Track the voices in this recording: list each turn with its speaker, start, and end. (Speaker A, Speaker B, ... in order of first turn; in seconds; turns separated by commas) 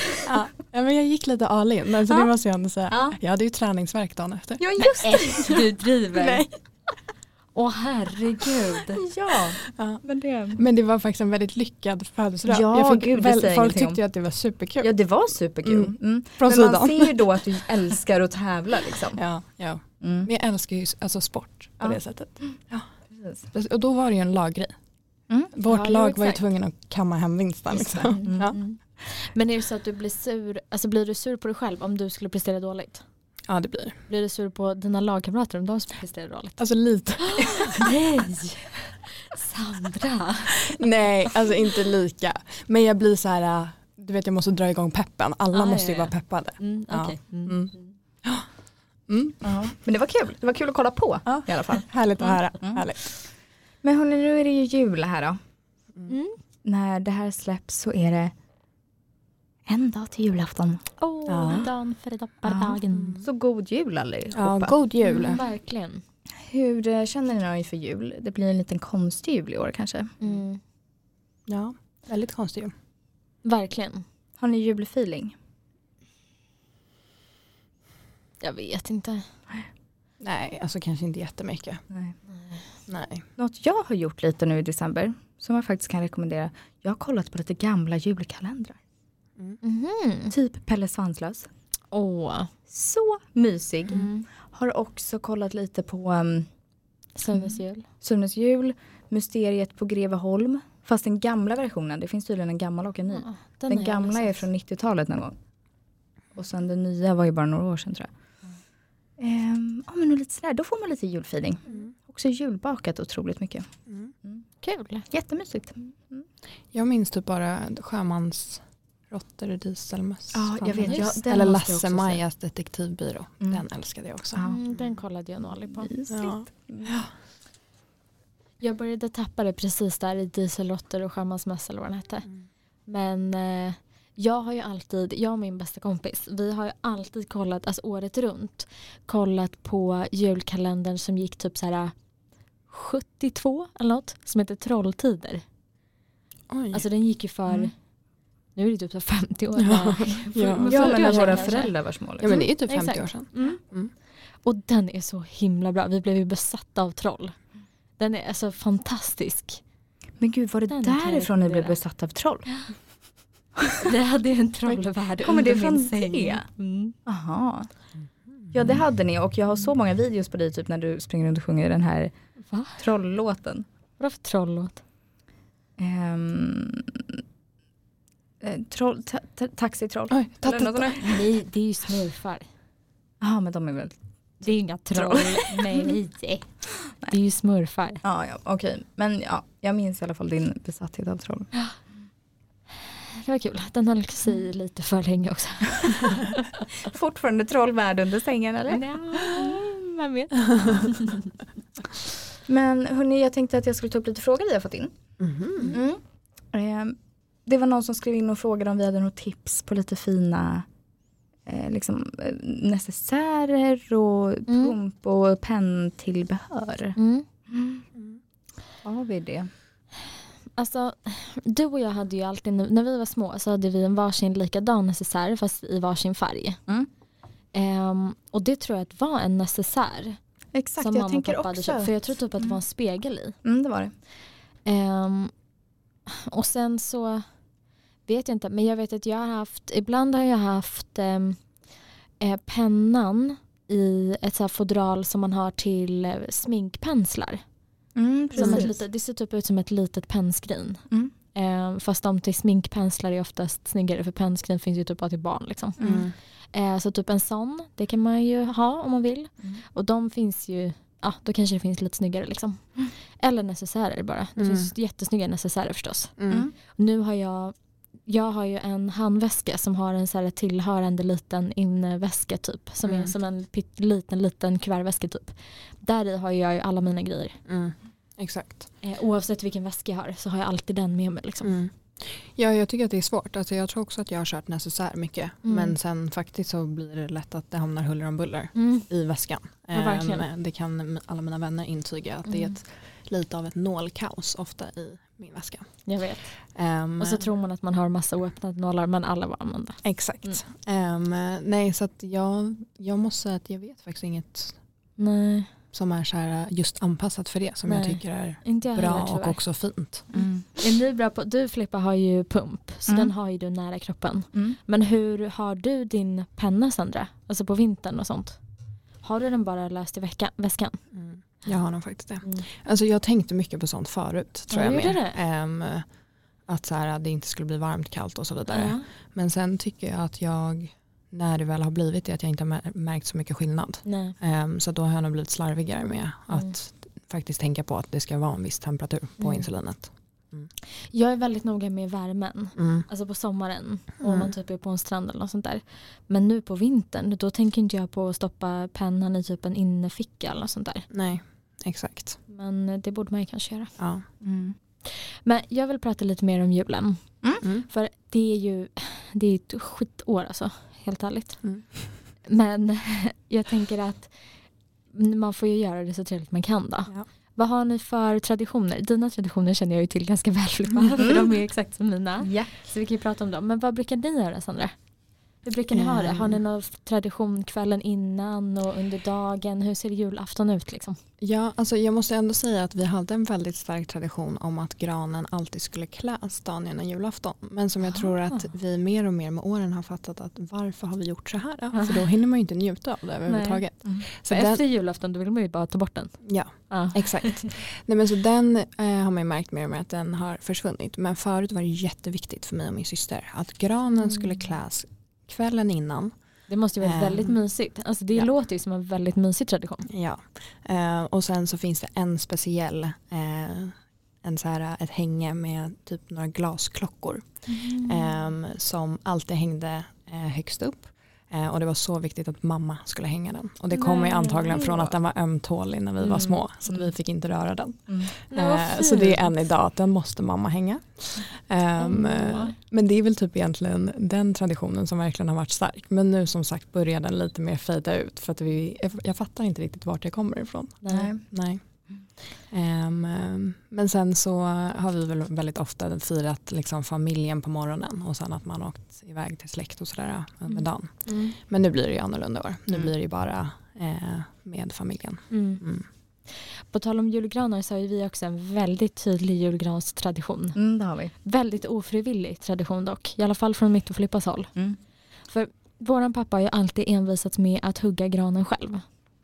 Speaker A: 0.2-4.6, Speaker B: 2.9-3.2, Speaker B: 4.6-5.6, Speaker C: 5.0-6.5, Speaker A: 6.1-6.5, Speaker C: 7.5-9.0, Speaker B: 8.9-10.6, Speaker A: 9.7-10.0, Speaker A: 10.6-14.9, Speaker B: 12.5-14.0, Speaker B: 14.8-19.2, Speaker A: 15.6-17.4, Speaker A: 19.1-22.9, Speaker B: 20.0-20.3, Speaker B: 21.8-22.5, Speaker B: 23.1-23.5, Speaker A: 23.5-24.7, Speaker A: 25.5-28.6, Speaker C: 25.7-26.4, Speaker B: 27.8-28.5, Speaker C: 28.1-33.0, Speaker A: 33.5-34.0, Speaker C: 34.1-36.6, Speaker A: 36.6-37.9, Speaker C: 37.2-40.8, Speaker A: 40.6-47.7, Speaker C: 45.5-47.9, Speaker A: 49.1-49.5, Speaker B: 49.4-51.9, Speaker A: 51.2-53.0, Speaker B: 53.8-55.4, Speaker C: 56.1-56.4, Speaker B: 56.6-58.3, Speaker B: 59.7-60.8, Speaker C: 61.0-63.2, Speaker A: 61.3-61.7, Speaker B: 62.4-64.8, Speaker A: 62.9-63.2, Speaker A: 64.3-65.4, Speaker C: 65.0-66.0, Speaker B: 66.4-70.2, Speaker C: 70.2-70.6, Speaker A: 71.5-72.7, Speaker C: 73.4-74.0, Speaker B: 74.4-75.3, Speaker C: 78.4-79.2, Speaker A: 80.2-81.8, Speaker A: 82.9-83.2, Speaker B: 83.4-88.8, Speaker C: 89.6-90.3, Speaker B: 90.3-91.5, Speaker C: 91.9-92.5, Speaker B: 92.7-96.5, Speaker C: 93.9-94.2, Speaker C: 97.2-97.8, Speaker B: 98.0-105.3, Speaker C: 103.1-104.4, Speaker B: 106.3-108.1, Speaker B: 109.2-113.7, Speaker C: 114.6-115.0, Speaker B: 115.1-116.2, Speaker A: 116.7-124.4, Speaker B: 120.3-122.2, Speaker C: 120.8-121.1, Speaker B: 124.3-124.6, Speaker C: 124.4-125.9, Speaker B: 125.8-126.9, Speaker A: 126.1-127.1, Speaker C: 128.6-132.3, Speaker C: 132.9-141.9, Speaker C: 142.7-145.4, Speaker A: 146.5-146.8, Speaker C: 146.7-147.7, Speaker C: 148.6-153.6, Speaker A: 149.6-151.5, Speaker B: 150.6-152.4, Speaker A: 152.2-153.9, Speaker C: 154.4-157.3, Speaker C: 158.0-159.6, Speaker B: 160.2-162.4, Speaker C: 160.7-161.8, Speaker C: 163.8-166.9, Speaker B: 165.2-166.4, Speaker B: 167.1-167.7, Speaker B: 168.5-172.1, Speaker C: 172.5-172.8, Speaker B: 172.8-173.7, Speaker C: 174.0-174.8, Speaker B: 175.8-177.2, Speaker B: 178.4-181.2, Speaker A: 180.1-181.1, Speaker C: 181.0-182.4, Speaker B: 183.2-184.0, Speaker C: 184.4-186.5, Speaker B: 184.9-185.9, Speaker C: 187.1-188.0, Speaker B: 188.0-191.5, Speaker C: 193.1-196.6, Speaker B: 196.8-199.4, Speaker C: 198.7-201.3, Speaker B: 202.5-204.9, Speaker A: 205.2-205.8, Speaker B: 205.7-206.0, Speaker B: 206.5-210.6, Speaker B: 211.4-217.0, Speaker C: 214.5-214.8, Speaker C: 216.9-217.2, Speaker B: 217.5-217.8, Speaker B: 218.8-219.5, Speaker C: 220.6-226.6, Speaker C: 227.5-230.2, Speaker B: 230.5-232.5, Speaker C: 230.8-233.3, Speaker B: 233.4-233.9, Speaker C: 234.7-235.3, Speaker C: 236.1-237.2, Speaker C: 238.1-241.4, Speaker C: 242.2-247.4, Speaker B: 247.9-248.7, Speaker C: 248.3-250.8, Speaker A: 248.4-248.7, Speaker C: 251.3-255.8, Speaker B: 255.8-256.1, Speaker A: 255.8-256.1, Speaker C: 256.5-266.1, Speaker A: 264.4-264.7, Speaker A: 266.2-266.5, Speaker C: 266.7-267.5, Speaker C: 268.1-277.4, Speaker A: 272.9-273.1, Speaker A: 277.5-278.7, Speaker C: 278.8-281.6, Speaker A: 281.4-295.7, Speaker C: 285.4-285.7, Speaker C: 288.5-288.9, Speaker C: 289.7-290.2, Speaker C: 292.2-292.5, Speaker C: 295.8-296.3, Speaker A: 296.4-297.2, Speaker C: 297.0-300.4, Speaker A: 299.8-304.6, Speaker C: 305.0-305.5, Speaker A: 305.7-310.1, Speaker C: 307.7-309.4, Speaker B: 310.1-310.4, Speaker C: 310.6-318.4, Speaker C: 319.0-320.8, Speaker A: 320.9-325.8, Speaker C: 324.5-325.2, Speaker A: 326.5-340.5, Speaker C: 328.5-328.9, Speaker C: 333.8-334.1, Speaker C: 339.2-339.4, Speaker C: 340.9-350.9, Speaker A: 342.6-342.9, Speaker A: 344.0-344.3, Speaker A: 350.9-352.2, Speaker C: 352.3-353.7, Speaker A: 353.8-354.0, Speaker B: 354.2-354.6, Speaker C: 354.9-361.4, Speaker C: 362.3-364.1, Speaker C: 364.9-374.7, Speaker B: 371.0-371.3, Speaker B: 372.2-372.5, Speaker C: 375.4-381.0, Speaker A: 375.7-376.4, Speaker A: 381.2-394.6, Speaker C: 391.7-392.0, Speaker C: 393.3-393.6, Speaker C: 394.2-396.2, Speaker A: 396.2-406.1, Speaker C: 396.7-397.5, Speaker C: 406.5-409.9, Speaker A: 406.8-407.3, Speaker A: 409.9-441.6, Speaker B: 417.6-418.0, Speaker C: 423.7-424.6, Speaker B: 424.5-424.9, Speaker C: 426.0-426.4, Speaker C: 428.3-429.3, Speaker C: 431.8-432.5, Speaker C: 440.8-441.1, Speaker B: 440.9-441.2, Speaker A: 442.5-455.8, Speaker C: 451.1-451.3, Speaker C: 455.3-455.6, Speaker C: 456.7-460.6, Speaker B: 460.6-461.1, Speaker C: 461.2-464.5, Speaker C: 465.3-468.8